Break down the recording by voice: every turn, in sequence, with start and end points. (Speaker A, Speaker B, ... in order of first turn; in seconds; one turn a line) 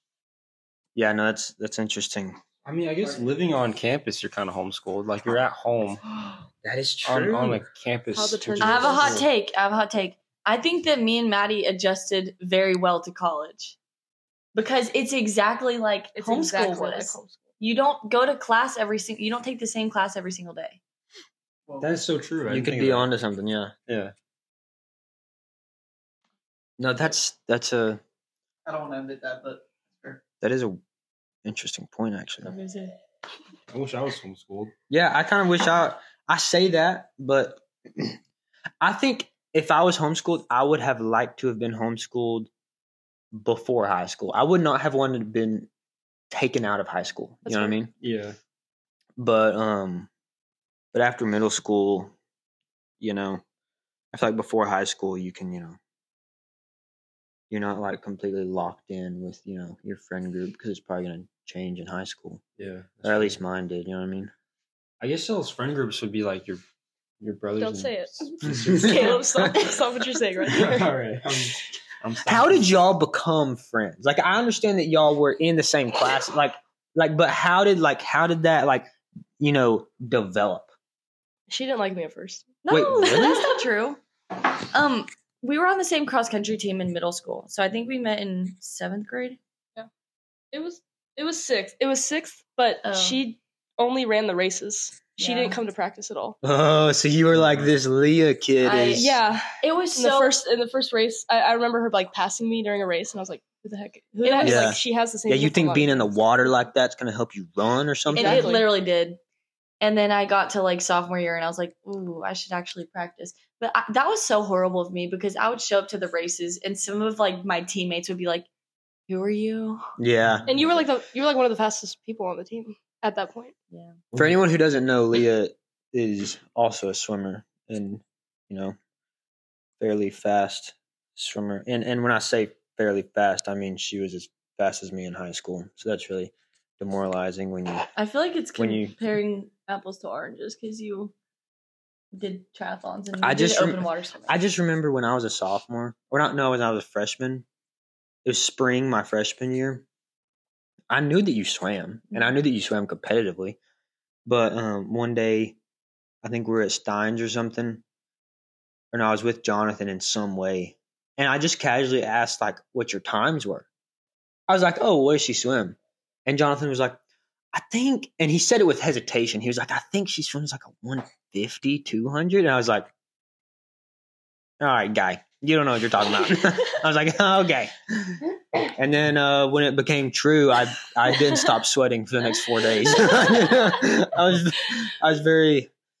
Speaker A: 0.9-2.4
Speaker B: 2.6-6.0
Speaker C: 3.0-3.6
Speaker A: 6.6-7.6
Speaker B: 7.0-9.3
Speaker D: 8.1-9.2
Speaker E: 8.6-13.8
Speaker E: 14.5-20.8
Speaker D: 16.1-17.5
Speaker C: 21.7-22.0
Speaker B: 21.8-23.1
Speaker A: 22.5-23.7
Speaker B: 23.9-24.1
Speaker A: 26.8-28.0
Speaker C: 28.6-30.2
Speaker A: 30.4-30.8
Speaker A: 31.4-32.5
Speaker E: 32.4-32.9
Speaker B: 33.7-34.7
Speaker A: 34.9-38.2
Speaker A: 38.8-42.5
Speaker A: 43.3-45.7
Speaker A: 46.3-47.9
Speaker D: 47.4-47.8
Speaker B: 48.0-48.4
Speaker A: 49.2-50.1
Speaker A: 50.9-52.1
Speaker A: 53.0-53.4
Speaker A: 54.1-55.8
Speaker A: 57.5-62.4
Speaker B: 62.6-63.4
Speaker A: 63.0-64.3
Speaker B: 65.0-66.6
Speaker B: 67.2-69.4
Speaker D: 67.6-71.0
Speaker A: 68.5-69.2
Speaker B: 70.5-72.7
Speaker A: 72.2-80.7
Speaker D: 81.5-82.5
Speaker E: 82.6-84.0
Speaker A: 82.7-83.5
Speaker E: 84.7-89.4
Speaker D: 90.5-96.4
Speaker E: 92.8-93.2
Speaker E: 95.2-95.6
Speaker A: 96.4-99.1
Speaker B: 97.3-97.7
Speaker E: 98.6-100.4
Speaker D: 98.9-106.1
Speaker E: 104.2-104.7
Speaker A: 104.4-108.5
Speaker D: 108.1-108.7
Speaker E: 108.1-109.2
Speaker E: 109.8-118.5
Speaker E: 119.1-119.9
Speaker A: 120.0-120.5
Speaker D: 120.5-123.5
Speaker A: 124.1-128.8
Speaker A: 129.8-137.9
Speaker E: 137.9-141.1
Speaker A: 138.6-138.9
Speaker E: 142.1-144.4
Speaker A: 143.2-147.4
Speaker A: 148.2-149.8
Speaker A: 150.9-153.6
Speaker A: 154.2-155.6
Speaker A: 156.2-157.8
Speaker A: 158.9-163.7
Speaker A: 164.5-167.0
Speaker A: 167.5-172.9
Speaker A: 174.6-185.7